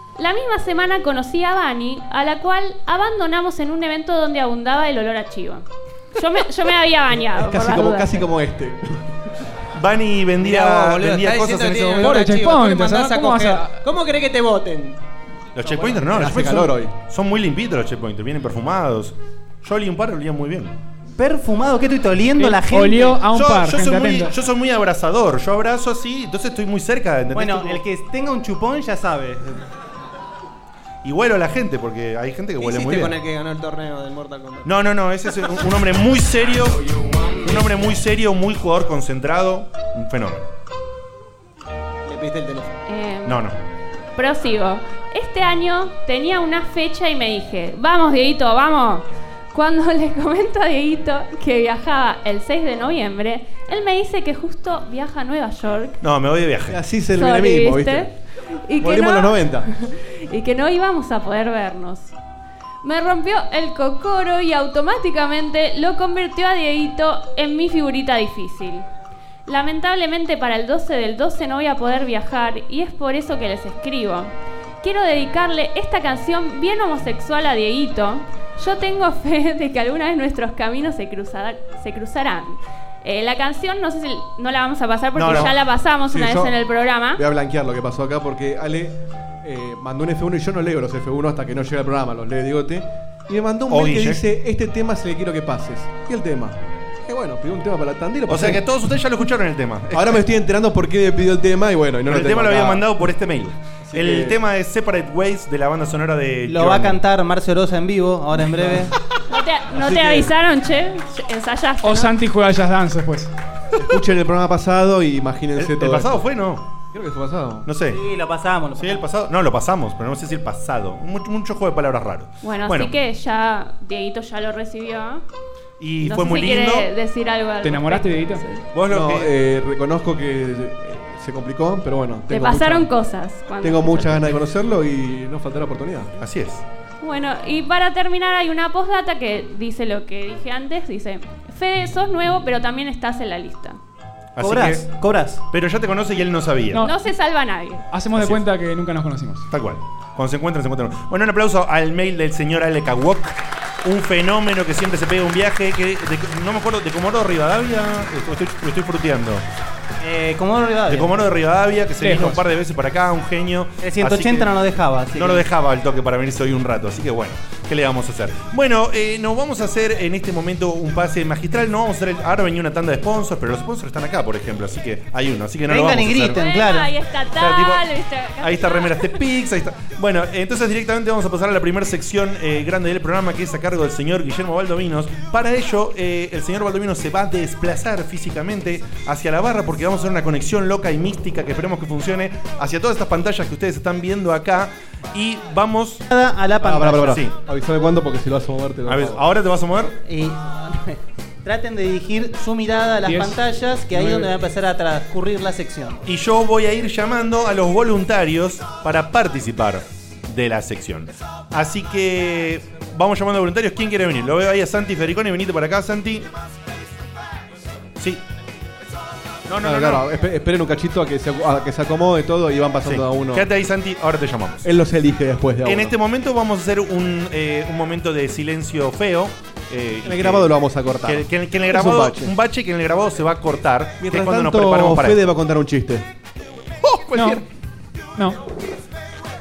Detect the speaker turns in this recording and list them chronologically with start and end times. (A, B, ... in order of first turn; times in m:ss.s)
0:00.2-0:08.3 A
0:07.3-0:09.1 B
0:09.8-0:12.2 C
0:10.4-0:15.0 D
0:12.0-0:13.8 E
0:15.6-0:20.8 C
0:16.0-0:16.9 B
0:21.2-0:23.2 F
0:22.4-0:24.3 E
0:23.3-0:27.8 C
0:27.3-0:29.6 F
0:31.0-0:33.2 C
0:32.6-0:34.7 D
0:34.6-0:36.8 C
0:37.4-0:40.4 C
0:42.0-0:42.8 D
0:42.9-0:43.4 A
0:43.2-0:43.6 C
0:44.2-0:56.0 A
0:56.0-0:56.8 C
0:56.7-0:58.1 B
0:57.2-0:58.1 A
0:58.6-1:02.1 A
0:58.8-0:59.7 B
1:02.8-1:08.9 A
1:09.5-1:27.2 A
1:25.2-1:25.5 C
1:26.1-1:26.6 B
1:27.2-1:38.6 B
1:33.7-1:34.2 C
1:38.3-1:40.2 C
1:39.9-1:42.9 B
1:42.1-1:47.0 C
1:43.8-1:44.4 B
1:46.5-1:48.9 F
1:49.3-1:52.1 A
1:49.7-1:50.3 B
1:51.8-1:53.3 E
1:53.8-1:56.2 B
1:55.6-1:56.6 C
1:56.9-1:57.7 B
1:57.7-1:58.0 C
1:57.9-1:59.0 F
1:58.8-2:02.9 C
2:02.4-2:05.2 A
2:05.8-2:06.9 C
2:06.0-2:08.6 A
2:07.6-2:08.4 E
2:08.7-2:09.3 C
2:08.9-2:12.9 B
2:12.3-2:14.3 A
2:13.6-2:16.1 B
2:16.2-2:16.6 C
2:17.0-2:23.8 A
2:24.4-2:24.9 C
2:24.4-2:25.4 F
2:25.5-2:26.8 C
2:26.8-2:27.8 A
2:27.9-2:29.4 E
2:28.2-2:28.4 C
2:29.5-2:39.4 C
2:40.0-2:41.1 F
2:40.9-2:44.5 C
2:42.0-2:42.4 E
2:43.8-2:45.4 F
2:45.1-2:56.4 C
2:55.7-2:56.9 F
2:56.4-2:59.2 A
2:57.4-2:57.8 C
2:58.4-3:16.0 C
3:16.1-3:17.2 F
3:16.6-3:19.2 B
3:17.0-3:17.3 C
3:18.9-3:20.0 C
3:20.0-3:26.0 F
3:23.1-3:23.4 E
3:23.9-3:24.3 B
3:26.0-3:36.3 C
3:38.0-3:38.2 C
3:39.5-3:40.0 C
3:39.6-3:43.5 B
3:42.8-3:44.6 C
3:44.6-3:46.0 B
3:45.6-3:50.5 C
3:50.0-3:52.4 B
3:51.0-3:55.2 C
3:54.0-3:56.1 B
3:56.8-3:57.4 C
3:57.1-3:57.4 E
3:58.2-3:58.4 E